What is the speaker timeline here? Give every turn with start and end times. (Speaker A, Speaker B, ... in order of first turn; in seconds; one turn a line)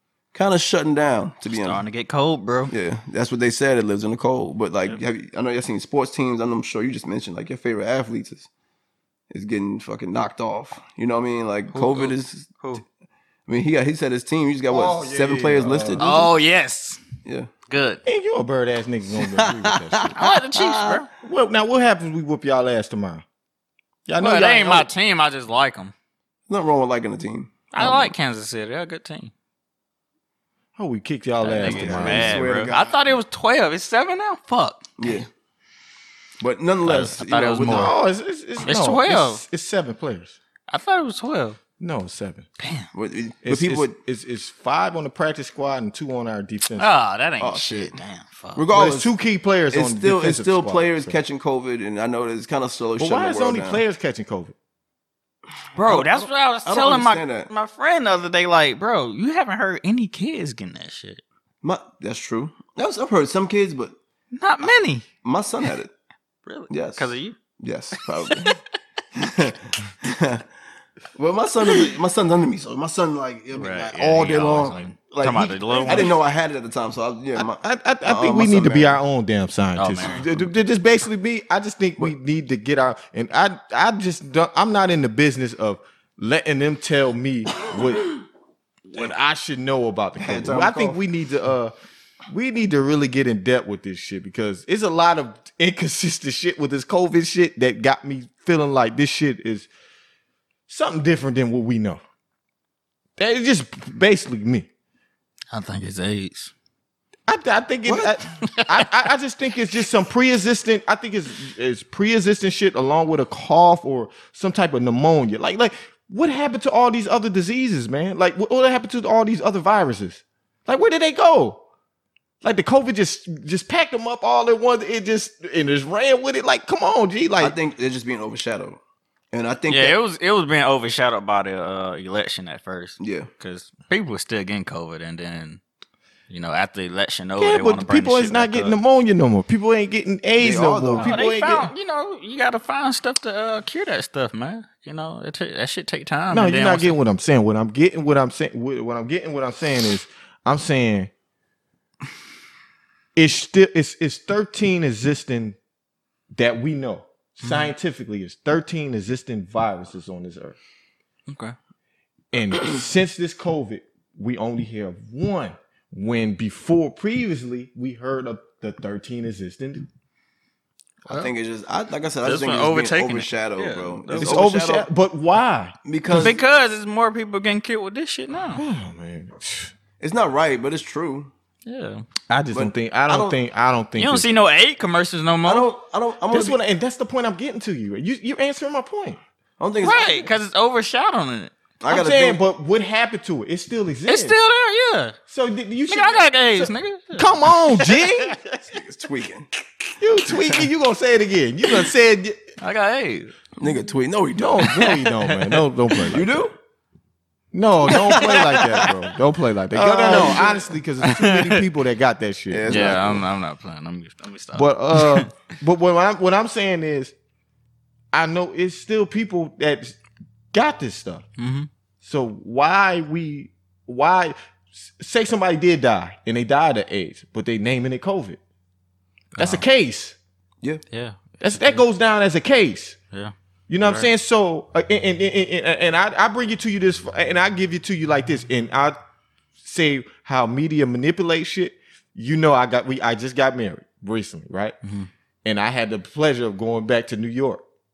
Speaker A: 0.3-1.8
Speaker B: 1.6-2.7
Speaker A: 2.7-8.5
Speaker A: 9.3-12.5
Speaker B: 11.7-12.8
Speaker A: 13.5-16.1
Speaker C: 14.7-16.3
Speaker B: 16.0-17.0
Speaker A: 17.2-17.5
Speaker B: 17.7-18.0
Speaker C: 18.1-20.2
Speaker A: 19.1-21.0
Speaker B: 20.2-21.1
Speaker C: 21.2-23.2
Speaker C: 24.1-24.9
Speaker B: 24.2-25.9
Speaker A: 26.5-27.6
Speaker B: 27.7-29.3
Speaker C: 27.8-28.1
Speaker C: 30.8-32.4
Speaker B: 31.4-35.1
Speaker A: 31.6-33.0
Speaker A: 35.0-35.3
Speaker A: 36.4-37.9
Speaker B: 36.8-38.0
Speaker C: 37.6-40.4
Speaker B: 38.6-39.4
Speaker B: 40.7-41.6
Speaker C: 41.8-42.5
Speaker B: 42.6-42.9
Speaker A: 42.9-44.0
Speaker C: 43.4-46.9
Speaker B: 46.8-48.7
Speaker A: 47.4-48.0
Speaker A: 48.6-49.1
Speaker C: 48.7-51.2
Speaker A: 49.7-53.8
Speaker C: 53.0-54.5
Speaker B: 55.8-61.2
Speaker A: 55.9-57.5
Speaker A: 61.6-64.0
Speaker B: 64.3-65.1
Speaker A: 65.2-65.9
Speaker B: 66.5-67.4
Speaker A: 66.7-68.6
Speaker B: 68.0-68.6
Speaker A: 69.2-70.5
Speaker A: 71.2-79.0
Speaker B: 73.5-76.1
Speaker C: 75.7-76.1
Speaker C: 77.4-88.2
Speaker B: 79.8-80.2
Speaker A: 80.1-80.5
Speaker C: 88.9-91.7
Speaker A: 90.2-91.0
Speaker C: 92.3-99.7
Speaker C: 100.7-102.0
Speaker C: 103.2-104.7
Speaker B: 105.5-106.5
Speaker C: 107.3-121.6
Speaker A: 107.8-108.2
Speaker B: 108.4-108.9
Speaker C: 122.4-127.6
Speaker A: 127.4-128.8
Speaker A: 129.3-130.0
Speaker B: 129.7-135.6
Speaker A: 133.0-133.3
Speaker B: 136.3-138.8
Speaker C: 137.4-141.7
Speaker A: 140.4-141.2
Speaker B: 141.0-147.0
Speaker C: 146.3-151.1
Speaker C: 153.2-155.6
Speaker C: 156.3-160.6
Speaker B: 157.4-157.7
Speaker B: 161.3-161.6
Speaker C: 162.3-169.9
Speaker A: 171.1-174.9
Speaker B: 172.2-174.4
Speaker C: 174.2-176.3
Speaker A: 175.8-176.4
Speaker B: 176.1-178.6
Speaker C: 178.6-179.7
Speaker A: 180.0-181.3
Speaker B: 181.7-182.1
Speaker C: 182.3-184.3
Speaker A: 182.5-183.4
Speaker B: 184.0-185.7
Speaker A: 185.4-186.6
Speaker C: 186.3-189.2
Speaker A: 189.6-190.3
Speaker B: 189.8-191.5
Speaker A: 191.8-192.4
Speaker C: 191.9-194.4
Speaker B: 194.1-195.2
Speaker C: 195.3-198.4
Speaker B: 195.9-198.6
Speaker A: 198.7-199.5
Speaker C: 200.0-202.4
Speaker A: 200.4-200.7
Speaker B: 202.6-203.3
Speaker A: 203.6-204.8
Speaker C: 204.4-206.5
Speaker B: 204.6-205.7
Speaker A: 206.1-206.5
Speaker C: 207.5-213.2
Speaker A: 207.9-208.9
Speaker B: 207.9-208.9
Speaker A: 209.8-210.8
Speaker B: 209.8-211.7
Speaker A: 212.5-213.3
Speaker B: 212.7-215.3
Speaker C: 214.5-217.1
Speaker C: 218.1-220.0
Speaker C: 220.5-221.2
Speaker B: 221.4-221.7
Speaker C: 222.0-224.4
Speaker C: 224.9-228.4
Speaker B: 229.3-229.6
Speaker C: 229.4-230.2
Speaker B: 230.9-231.8
Speaker C: 231.4-233.0
Speaker B: 233.1-234.1
Speaker C: 233.7-239.0
Speaker C: 239.6-244.8
Speaker B: 244.8-245.1
Speaker C: 245.4-247.6